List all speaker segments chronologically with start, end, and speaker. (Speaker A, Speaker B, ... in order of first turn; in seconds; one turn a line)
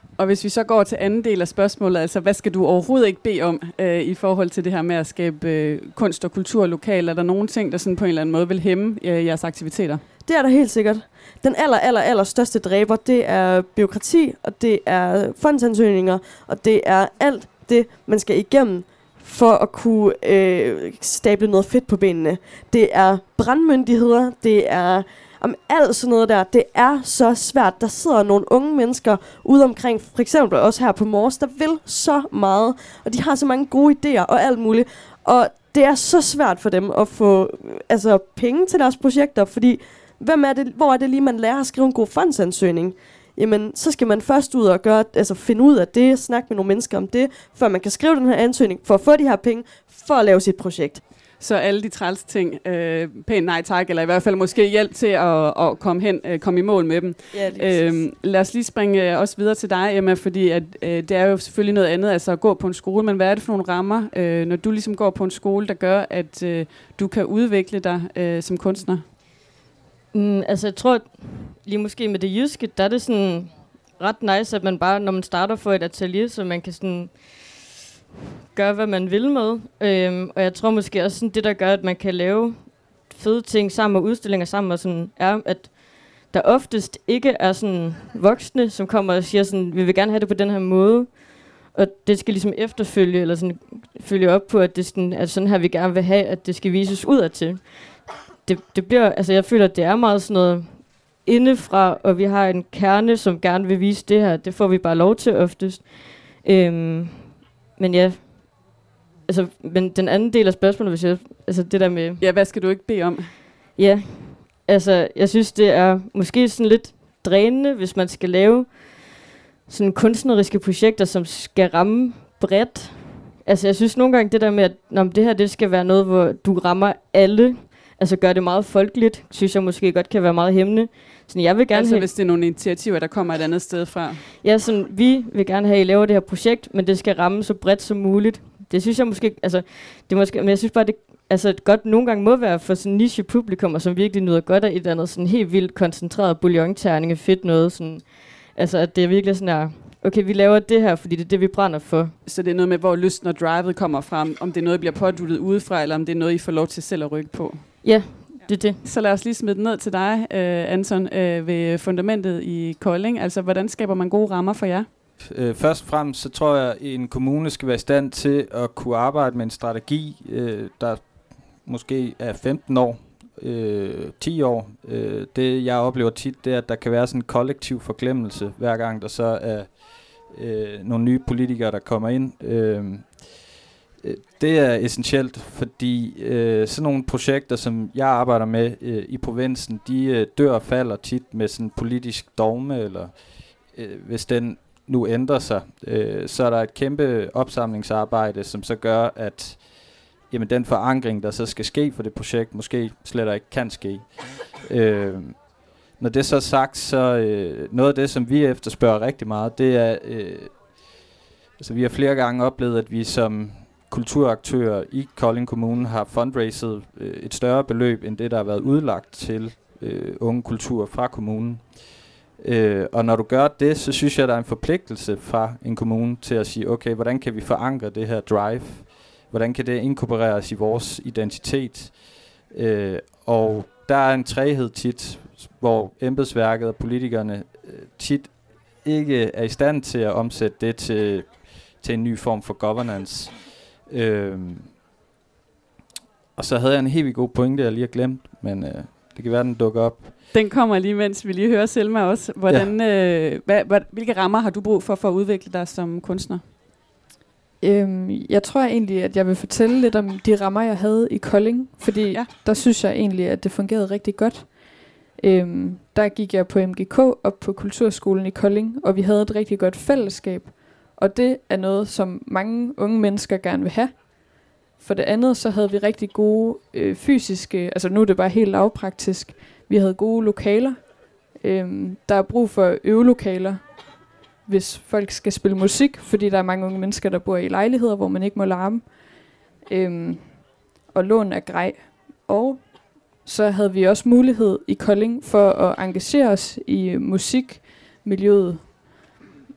Speaker A: 0.2-10.0
Speaker B: 10.2-51.0
Speaker A: 51.4-69.0
Speaker B: 57.3-58.0
Speaker C: 70.1-77.3
Speaker C: 78.5-97.9
Speaker C: 98.4-108.7
Speaker C: 109.3-112.2
Speaker A: 112.2-113.3
Speaker C: 113.8-119.0
Speaker C: 119.7-132.1
Speaker A: 131.7-134.2
Speaker C: 134.4-152.1
Speaker A: 152.2-164.9
Speaker C: 157.8-158.8
Speaker D: 165.2-183.4
Speaker D: 184.0-210.9
Speaker D: 211.6-244.7
Speaker D: 246.3-250.2
Speaker A: 250.3-256.4
Speaker D: 252.5-252.7
Speaker E: 257.6-299.0